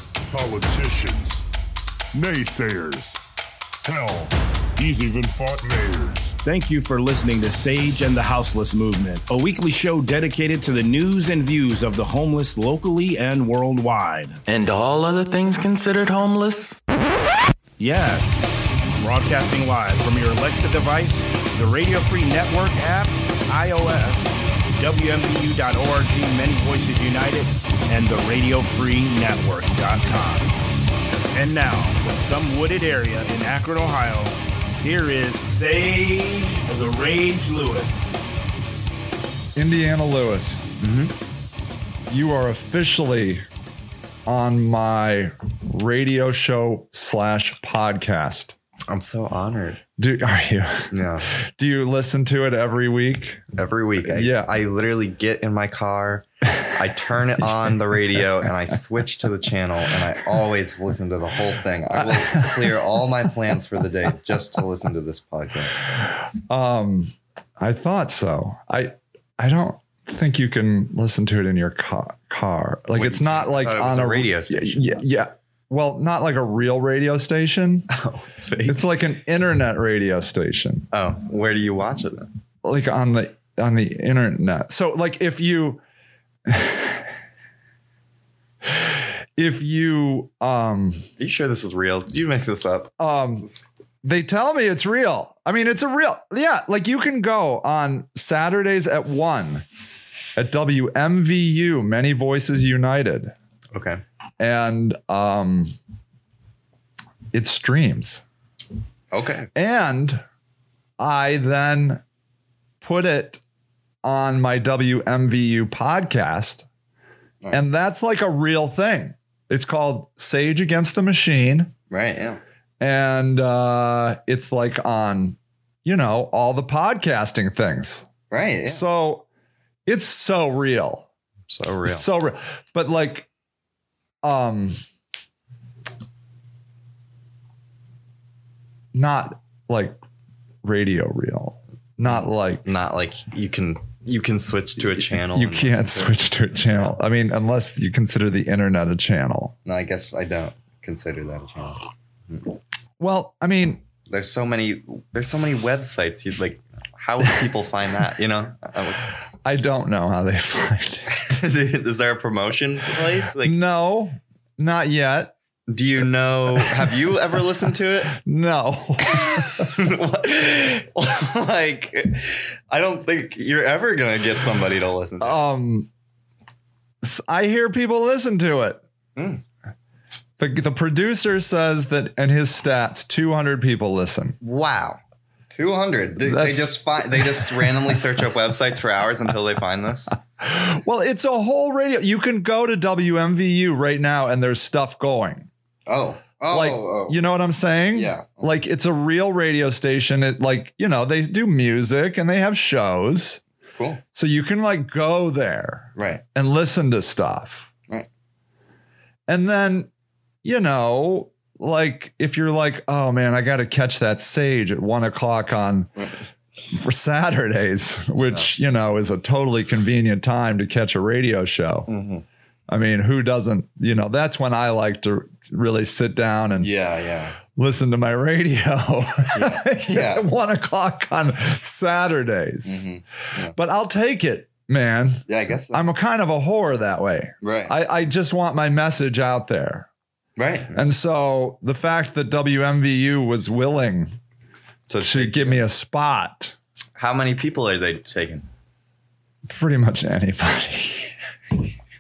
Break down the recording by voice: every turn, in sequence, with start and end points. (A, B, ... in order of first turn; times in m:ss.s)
0:00.3-0:01.5 A
0:02.1-0:03.2 A
0:03.8-0:06.4 A
0:06.4-0:14.4 B
0:14.5-0:16.8 C
0:17.8-0:30.5 B
0:31.1-0:38.2 B
0:39.6-0:40.6 D
0:40.8-0:41.1 E
0:42.1-0:43.5 D
0:44.3-0:48.5 D
0:48.9-0:49.8 E
0:50.0-0:53.4 D
0:50.9-0:51.3 E
0:53.6-1:05.8 E
0:54.1-0:54.5 D
1:02.0-1:02.8 D
1:06.5-1:17.9 D
1:12.9-1:15.0 E
1:17.9-1:18.8 E
1:18.7-1:20.9 D
1:20.9-1:22.3 E
1:22.6-1:25.8 D
1:26.5-1:27.1 D
1:28.7-1:31.0 D
1:31.2-1:33.6 E
1:33.0-1:33.5 D
1:34.0-1:39.6 D
1:40.4-1:43.3 D
1:43.7-1:44.0 E
1:44.4-1:45.8 D
1:47.3-1:48.2 D
1:49.1-1:49.5 E
1:49.6-1:50.2 D
1:51.0-1:52.0 D
1:52.8-1:53.4 D
1:54.0-1:56.7 D
1:57.5-2:01.7 D
2:01.9-2:02.4 E
2:02.8-2:08.1 D
2:08.3-2:08.8 E
2:08.6-2:09.3 D
2:09.9-2:11.1 D
2:11.5-2:12.1 E
2:11.8-2:13.3 D
2:14.2-2:14.8 D
2:18.9-2:20.0 D
2:20.6-2:22.6 D
2:22.1-2:27.0 E
2:25.2-2:29.5 D
2:29.6-2:32.5 E
2:33.0-2:33.8 D
2:34.1-2:39.1 E
2:39.4-2:41.1 D
2:41.1-2:43.6 E
2:43.4-2:45.3 D
2:45.7-2:48.2 E
2:48.1-2:49.8 D
2:49.1-2:55.4 E
2:55.2-2:55.9 D
2:57.0-2:58.8 D
2:59.2-2:59.4 E
3:00.4-3:04.4 D
3:04.4-3:05.0 E
3:05.5-3:10.1 E
3:06.2-3:07.8 D
3:10.4-3:15.5 D
3:15.9-3:17.2 E
3:16.5-3:23.4 D
3:17.9-3:18.5 E
3:23.8-3:24.0 E
3:24.1-3:27.7 D
3:26.0-3:26.2 E
3:29.3-3:29.9 D
3:30.4-3:35.9 D
3:36.7-3:41.9 D
3:41.9-3:42.2 E
3:42.7-3:46.7 D
3:46.6-3:47.4 E
3:47.6-3:52.9 D
3:49.3-3:50.3 E
3:52.6-3:53.6 E
3:53.5-3:59.9 D
3:55.3-3:55.8 E
3:57.4-3:57.7 E
4:00.4-4:00.8 E
4:00.7-4:04.2 D
4:04.9-4:05.6 E
4:05.0-4:06.6 D
4:07.0-4:08.5 E
4:09.5-4:11.2 D